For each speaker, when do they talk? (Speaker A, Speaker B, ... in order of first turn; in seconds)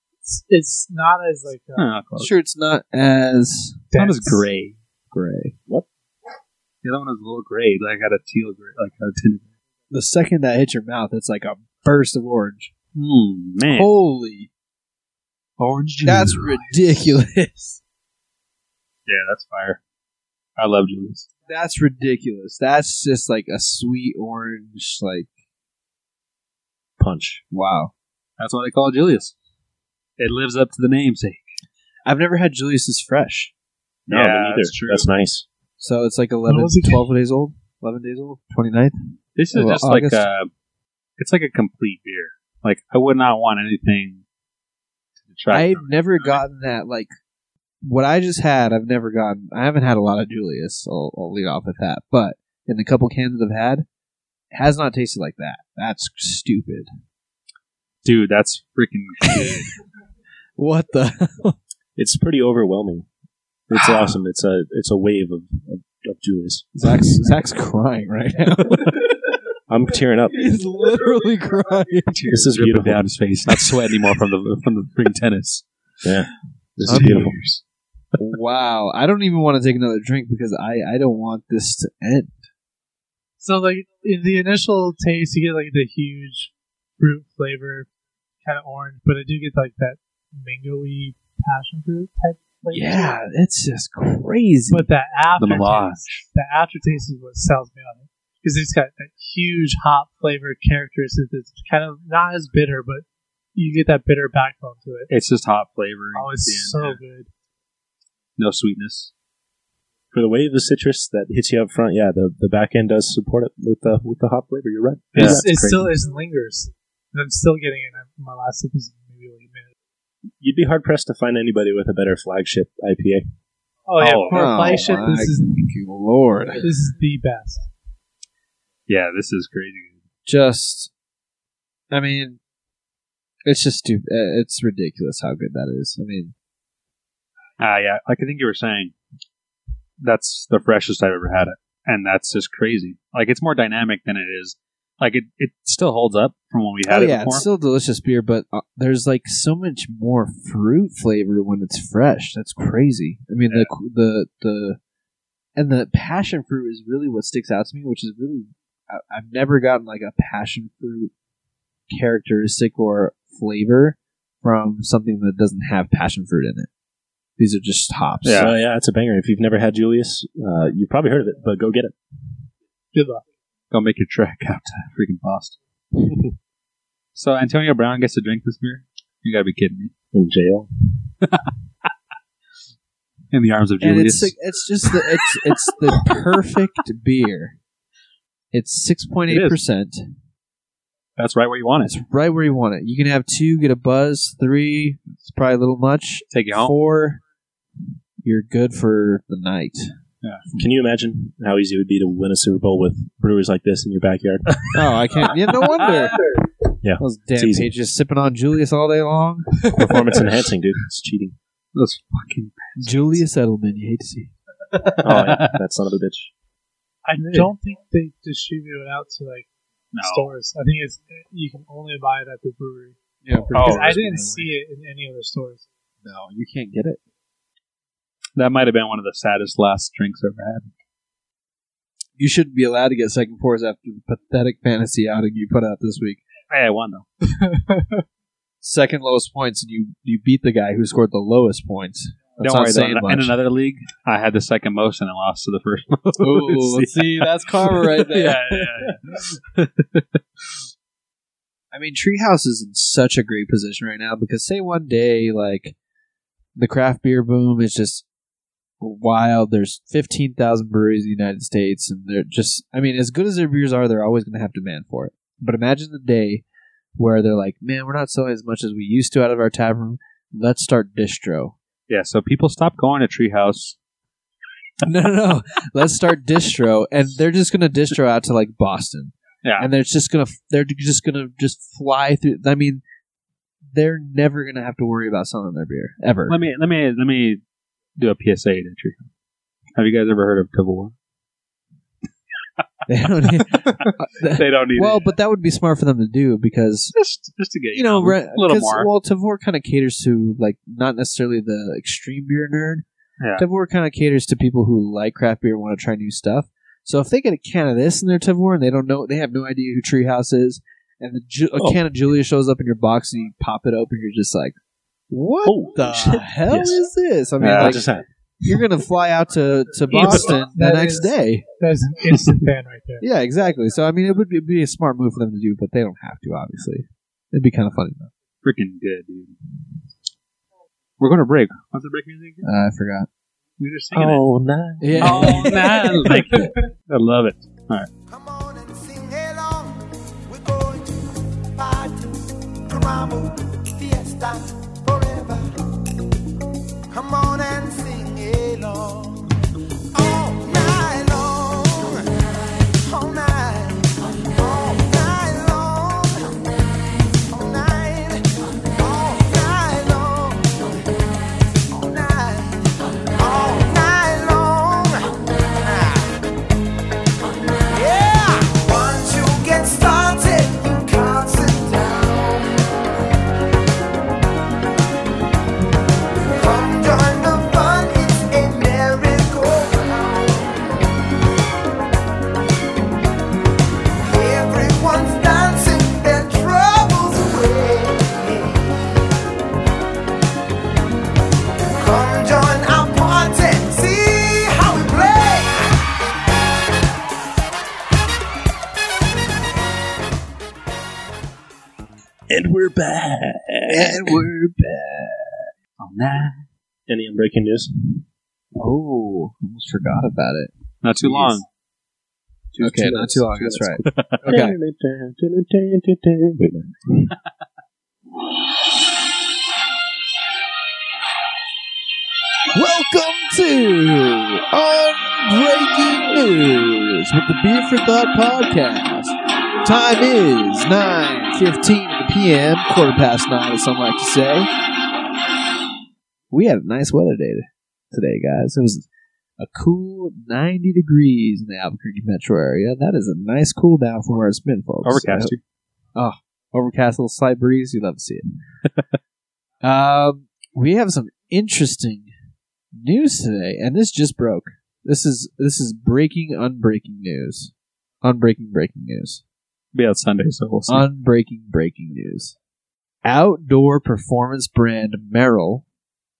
Speaker A: 0.2-1.9, 3.9-4.4, 36.5-37.0, 83.4-87.9, 88.4-93.2, 94.7-105.1, 106.1-107.3, 115.1-119.7, 123.9-125.7, 126.6-127.6, 172.9-173.2, 217.0-225.6, 237.3-238.0, 319.9-323.0, 335.7-336.4
Speaker B: 1.8-2.3, 4.0-4.8, 6.8-9.5, 12.9-13.9, 15.6-17.2, 19.1-19.8, 20.6-21.3, 28.4-29.3, 30.2-31.4, 34.1-35.1, 39.4-40.5, 41.2-44.2, 45.3-46.4, 58.0-59.7, 72.1-75.6, 76.8-77.6, 95.4-96.2, 105.1-107.0, 108.4-109.1, 115.1-115.4, 124.0-124.8, 128.9-130.0, 137.6-138.9, 140.0-147.4, 168.2-168.5, 173.7-175.6, 177.1-179.9, 181.2-181.5, 183.3-184.3, 189.3-189.6, 191.2-191.9, 196.3-196.7, 205.7-206.2, 211.7-213.2, 215.0-215.6, 217.2-217.5, 219.9-220.3, 223.5-224.0, 228.3-230.7, 236.5-237.1, 242.4-250.2, 271.9-273.8, 279.4-279.7, 286.3-287.4, 288.0-289.1, 289.8-290.9, 293.2-295.1, 296.9-298.9, 303.2-303.4, 317.4-317.8, 328.4-329.3, 331.0-332.5, 333.6-334.2, 335.0-337.9, 405.8-406.4, 410.8-411.4, 413.9-414.3, 444.8-445.4, 459.7-460.9
Speaker C: 2.1-3.8, 5.1-5.5, 9.9-12.7, 13.7-14.5, 16.0-17.8, 21.5-25.3, 27.5-27.9, 32.0-33.5, 35.8-39.0, 39.5-40.2, 45.5-47.1, 47.8-53.9, 54.5-56.9, 59.2-59.6, 60.6-61.6, 66.8-69.2, 70.3-72.2, 76.8-77.3, 78.2-82.3, 92.7-94.9, 124.3-126.7, 130.2-130.9, 131.9-132.4, 133.4-136.3, 146.8-154.8, 155.6-161.1, 161.9-166.7, 167.4-168.5, 183.8-187.6, 188.5-190.1, 191.8-197.2, 198.2-199.9, 204.7-206.2, 207.0-209.7, 212.8-214.3, 223.2-224.5, 226.0-227.0, 232.2-236.2, 238.6-243.3, 246.2-248.9, 251.7-255.7, 256.6-258.0, 258.8-266.4, 266.9-271.5, 274.8-282.8, 283.7-286.4, 292.9-296.9, 297.7-302.8, 303.4-314.5, 315.1-317.9, 318.4-321.4, 323.0-328.1, 332.4-333.1, 334.8-336.4, 403.7-405.5, 408.6-411.4, 412.6-414.6, 422.5-434.5, 436.3-438.9, 439.4-445.3, 445.9-448.2, 449.6-452.1, 452.7-459.2, 460.7-462.3, 463.0-465.6
Speaker D: 27.0-27.4, 34.1-35.5, 62.0-63.1, 63.7-67.3, 69.7-70.5, 72.3-73.0, 76.0-77.5, 110.1-115.9, 120.4-123.2, 168.3-171.9, 180.1-180.7, 200.5-204.9, 206.8-207.7, 209.7-211.3, 215.0-216.3, 315.4-316.8, 317.5-318.1, 333.9-335.6, 402.3-404.2, 406.9-408.0, 412.5-417.1
Speaker E: 338.1-345.5, 346.9-349.4, 349.9-356.4, 357.3-360.7, 361.7-366.2, 367.7-372.7, 376.3-380.7, 384.0-389.1, 391.8-395.8